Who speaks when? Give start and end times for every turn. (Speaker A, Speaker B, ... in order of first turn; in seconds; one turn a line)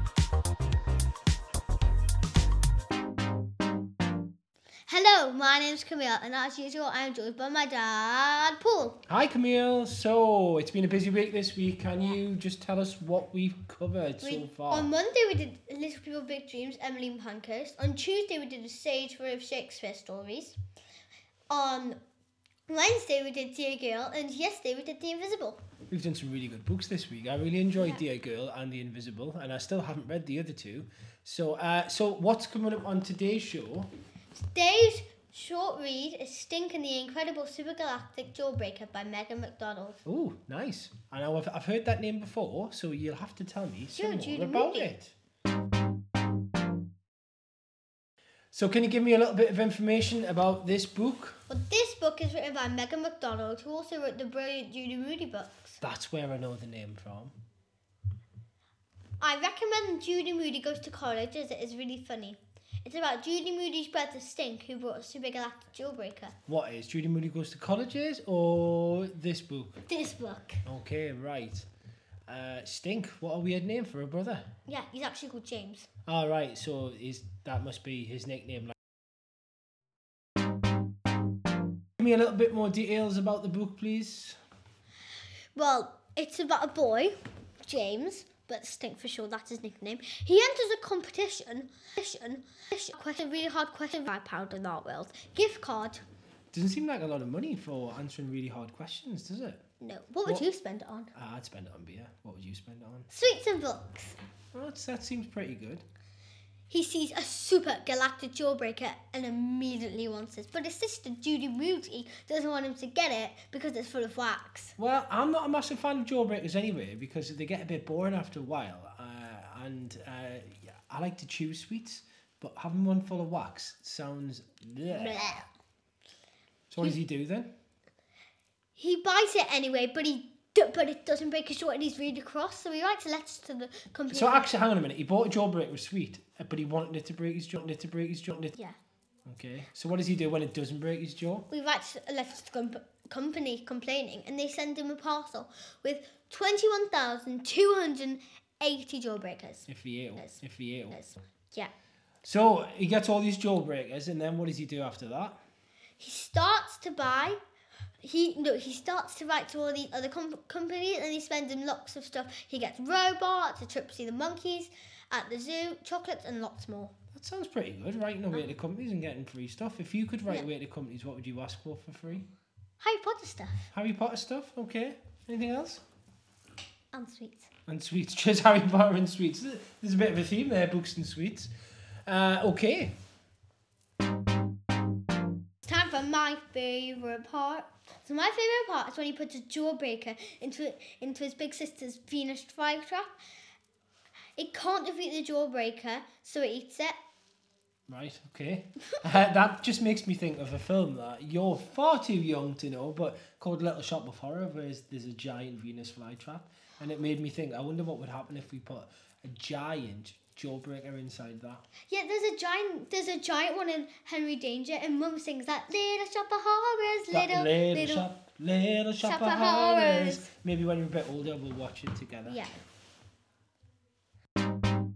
Speaker A: 4.9-9.0
Speaker B: 9.1-14.9
Speaker A: 14.2-20.6
Speaker A: 21.5-22.0
Speaker A: 22.7-25.6
Speaker B: 25.9-33.9
Speaker A: 27.8-28.0
Speaker A: 34.3-40.0
Speaker B: 40.0-45.1
Speaker A: 43.9-44.9
Speaker B: 48.5-51.4
Speaker A: 51.5-55.8
Speaker B: 55.8-57.3
Speaker A: 59.2-66.3
Speaker B: 66.5-69.8
Speaker A: 69.9-70.6
Speaker B: 70.6-71.7
Speaker B: 72.3-74.5
Speaker A: 74.7-75.9
Speaker B: 76.0-78.7
Speaker B: 82.0-84.4
Speaker A: 85.5-96.0
Speaker B: 96.5-99.6
Speaker A: 99.8-101.1
Speaker B: 101.1-103.1
Speaker A: 103.1-104.2
Speaker B: 104.5-105.8
Speaker A: 106.7-114.7
Speaker B: 114.8-125.3
Speaker A: 124.9-125.5
Speaker B: 126.7-127.5
Speaker A: 128.8-134.5
Speaker B: 134.1-138.6
Speaker B: 139.2-141.5
Speaker A: 141.5-150.4
Speaker B: 149.7-151.0
Speaker A: 150.9-151.7
Speaker B: 152.2-155.4
Speaker A: 156.0-157.4
Speaker A: 158.0-166.9
Speaker B: 167.1-172.3
Speaker A: 172.8-173.7
Speaker B: 173.7-175.8
Speaker A: 176.9-177.5
Speaker B: 177.7-181.5
Speaker B: 182.1-182.9
Speaker A: 185.6-193.1
Speaker A: 194.4-196.9
Speaker B: 197.9-211.6
Speaker A: 211.9-218.1
Speaker B: 217.1-222.4
Speaker A: 219.0-220.3
Speaker A: 222.2-222.5